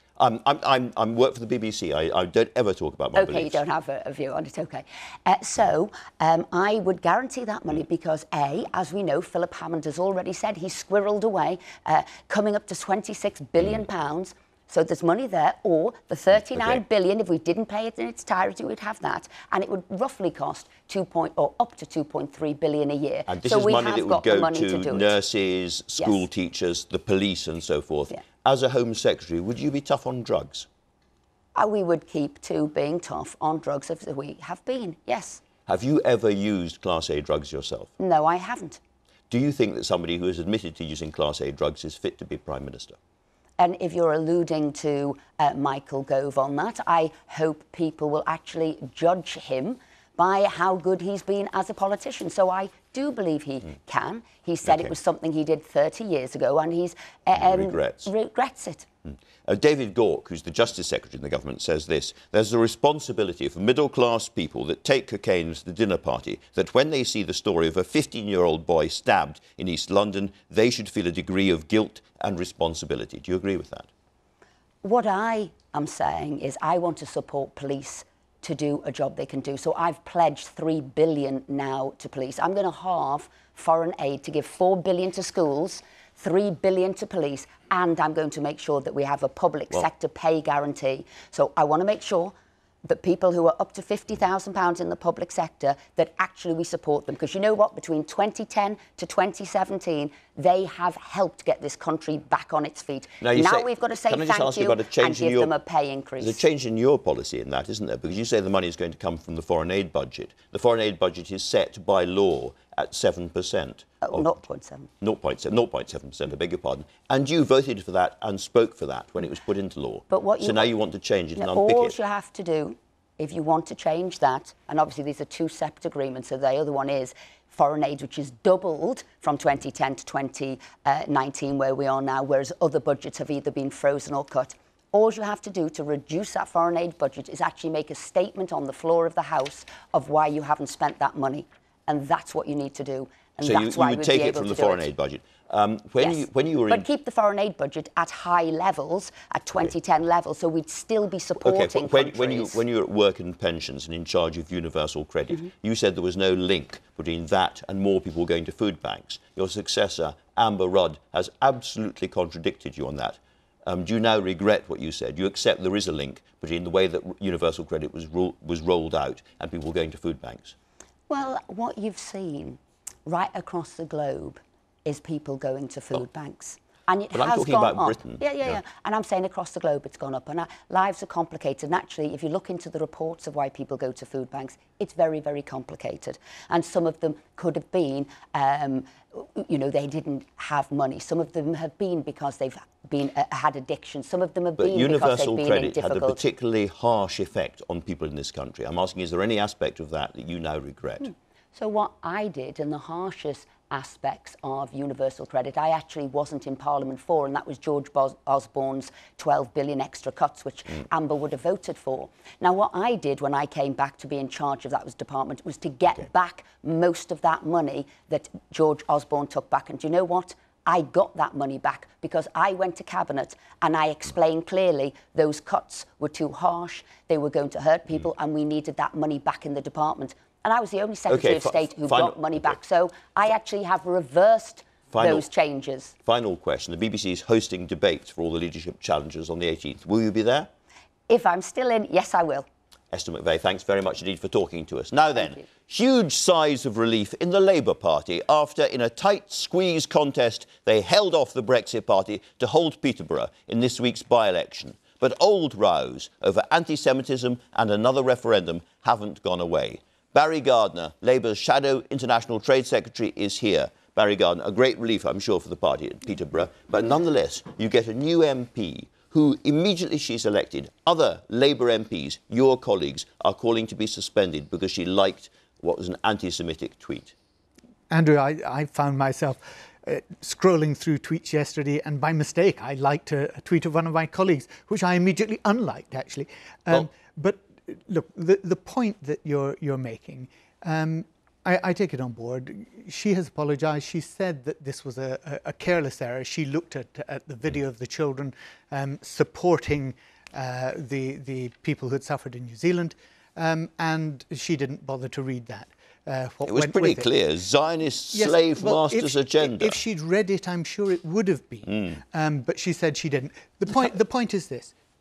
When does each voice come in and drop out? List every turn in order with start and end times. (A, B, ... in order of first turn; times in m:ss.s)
0:00.2-0:03.6 A
0:03.2-0:25.2 B
0:23.3-0:30.7 A
0:31.6-0:35.4 B
0:35.7-0:37.9 A
0:38.0-0:38.8 B
0:39.3-0:43.0 A
0:43.6-0:58.9 B
0:54.6-0:54.9 A
0:57.3-0:58.1 A
0:59.1-1:13.9 A
1:14.8-1:46.4 B
1:43.2-1:45.5 A
1:46.2-1:54.3 A
1:54.0-1:54.9 B
1:55.0-2:02.0 A
2:00.1-2:00.7 B
2:01.4-2:24.9 B
2:23.4-2:26.9 A
2:26.0-2:32.6 B
2:31.4-2:50.6 A
2:51.1-3:16.2 B
2:57.1-2:58.6 A
3:14.6-3:21.1 A
3:21.0-3:55.9 B
3:51.1-3:52.6 A
3:54.9-3:55.3 A
3:56.0-4:00.5 A
4:01.1-4:02.5 B
4:02.9-4:37.1 A
4:37.9-5:07.1 C
5:06.5-5:09.8 A
5:08.1-5:14.7 C
5:11.7-5:11.9 A